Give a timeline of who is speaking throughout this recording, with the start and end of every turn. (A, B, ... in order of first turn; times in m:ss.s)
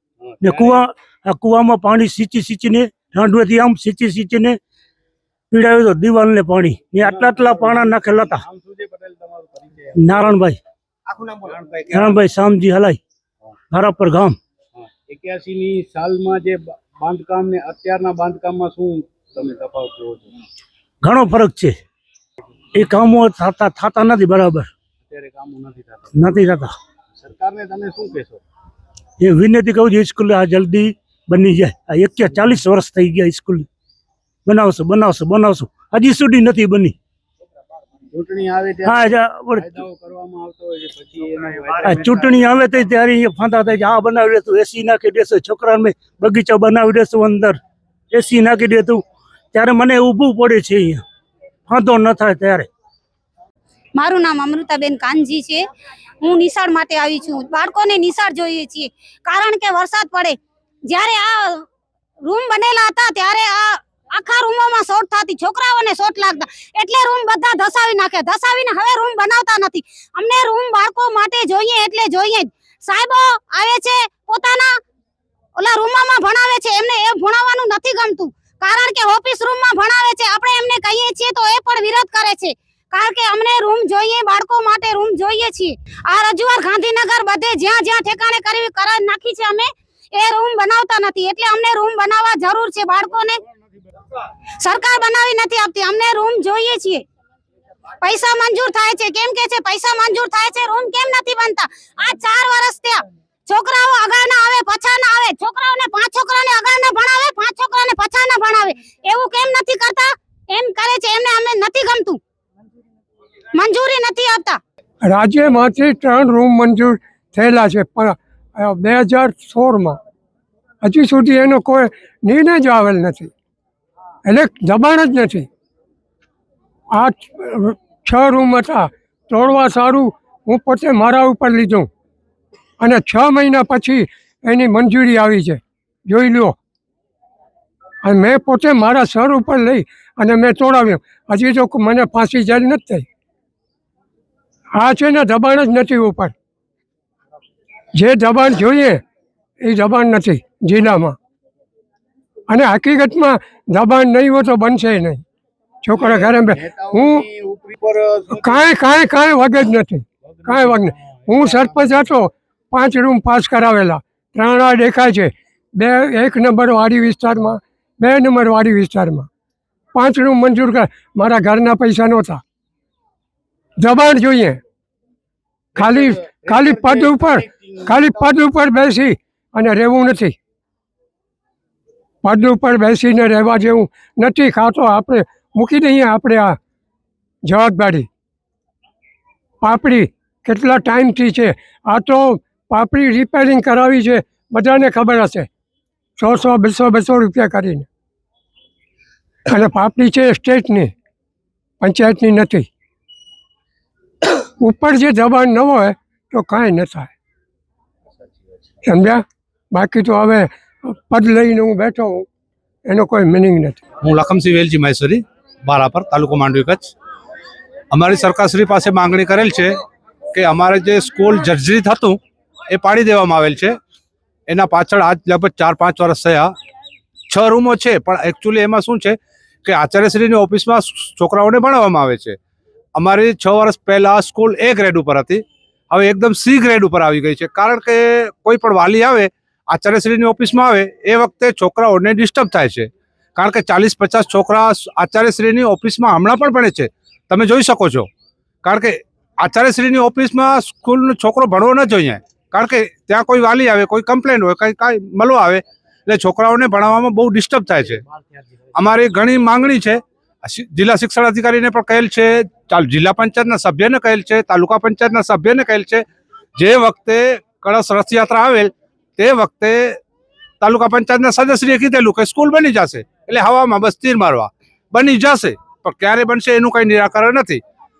0:00.2-0:00.8 A
0:00.4-0:04.6 B
0:05.5-0:08.4 B
0:07.0-0:10.3 A
0:10.0-0:10.6 B
0:11.4-0:12.2 A
0:11.9-0:13.0 B
0:13.7-0:14.4 B
0:14.8-0:20.3 A
0:21.0-0:21.8 B
0:22.8-0:24.7 B
0:25.1-0:26.2 A
0:26.1-0:26.8 B
0:27.2-0:28.4 A
0:29.2-0:33.7 B
0:34.4-0:37.0 B
0:38.1-0:42.4 A
0:38.9-0:39.8 B
0:41.8-0:47.6 B
0:48.1-0:51.0 B
0:51.7-0:52.7 B
0:54.0-0:55.6 C
0:56.2-1:00.4 C
1:00.9-1:01.6 C
1:02.3-1:14.7 C
1:15.6-1:33.4 C
1:34.6-1:37.0 C
1:38.0-1:52.2 C
1:53.6-1:54.6 C
1:55.0-2:00.0 D
2:00.8-2:03.3 D
2:04.2-2:05.5 D
2:06.9-2:11.9 D
2:12.8-2:16.6 D
2:18.0-2:23.1 D
2:24.8-2:26.3 D
2:28.0-2:29.0 D
2:29.6-2:31.2 D
2:32.5-2:35.2 D
2:35.8-2:37.3 D
2:35.9-2:38.7 A
2:38.4-2:49.3 D
2:40.3-2:42.1 A
2:50.0-2:52.4 D
2:53.8-2:54.6 D
2:55.8-2:58.5 A
2:55.8-3:00.4 D
3:02.2-3:06.6 D
3:07.4-3:08.1 D
3:09.6-3:15.5 D
3:16.2-3:17.9 D
3:19.5-3:20.9 D
3:21.8-3:22.7 D
3:24.6-3:27.1 D
3:28.9-3:32.3 D
3:32.9-3:33.8 D
3:34.0-3:36.9 E
3:37.9-3:39.7 E
3:40.4-3:42.2 E
3:42.7-3:43.7 E
3:44.5-3:46.5 E
3:47.3-3:52.4 E
3:53.0-4:08.1 E
4:08.6-4:18.0 E
4:18.8-4:26.0 E
4:26.6-4:30.0 E
4:30.6-4:37.6 E